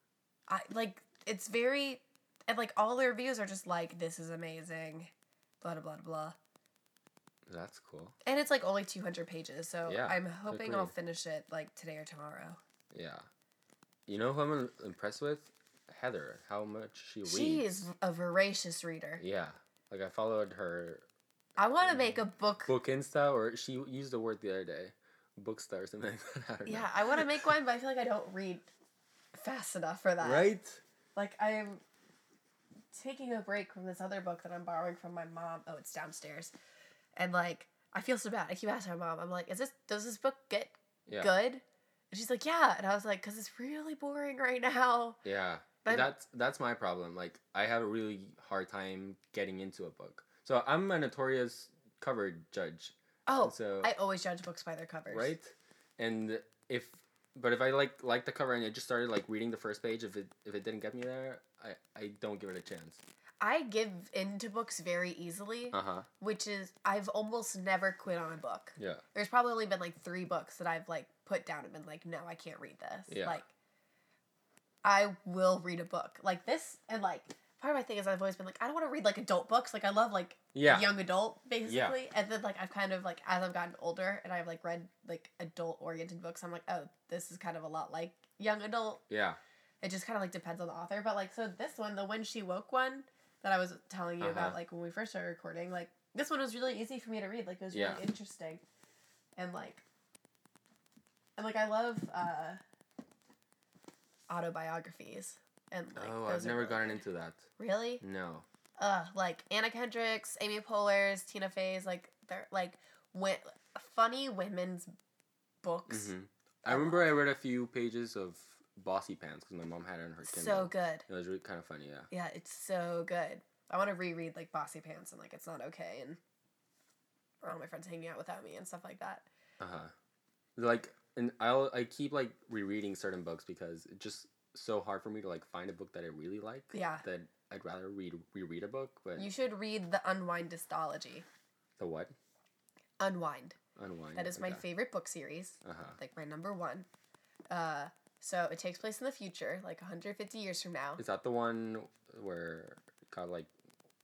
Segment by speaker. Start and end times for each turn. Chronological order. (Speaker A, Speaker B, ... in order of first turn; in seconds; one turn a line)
Speaker A: 0.5-6.4
Speaker B: 7.5-8.2
Speaker A: 8.3-12.6
Speaker B: 9.8-10.9
Speaker B: 12.9-13.3
Speaker B: 14.1-17.9
Speaker A: 17.2-19.2
Speaker B: 19.2-21.1
Speaker A: 21.6-22.7
Speaker B: 21.9-27.4
Speaker A: 26.7-28.7
Speaker A: 29.3-30.5
Speaker B: 30.2-30.8
Speaker A: 31.2-31.8
Speaker A: 32.9-36.5
Speaker A: 37.2-45.2
Speaker B: 41.1-41.3
Speaker B: 45.2-53.9
Speaker A: 45.8-46.1
Speaker A: 53.3-55.3
Speaker B: 55.1-63.0
Speaker A: 63.4-73.5
Speaker B: 65.7-66.1
Speaker B: 68.8-69.0
Speaker B: 73.1-73.4
Speaker A: 74.8-89.0
Speaker B: 80.5-80.9
Speaker B: 81.7-82.0
Speaker B: 89.1-89.4
Speaker A: 89.8-98.6
Speaker B: 94.2-94.6
Speaker B: 97.7-98.0
Speaker A: 99.4-99.8
Speaker A: 101.4-102.6
Speaker A: 104.3-107.0
Speaker B: 106.0-107.5
Speaker A: 107.6-108.0
Speaker B: 108.0-108.5
Speaker A: 108.8-114.9
Speaker A: 115.6-116.1
Speaker B: 115.9-122.1
Speaker A: 116.7-117.1
Speaker A: 120.2-121.1
Speaker A: 122.1-126.2
Speaker A: 127.4-129.3
Speaker B: 129.6-129.9
Speaker B: 130.6-139.3
Speaker A: 136.7-137.0
Speaker A: 139.2-141.3
Speaker B: 141.8-142.1
Speaker A: 143.0-143.6
Speaker B: 143.8-144.6
Speaker A: 144.2-146.9
Speaker B: 145.6-146.0
Speaker A: 147.5-151.0
Speaker B: 151.0-153.5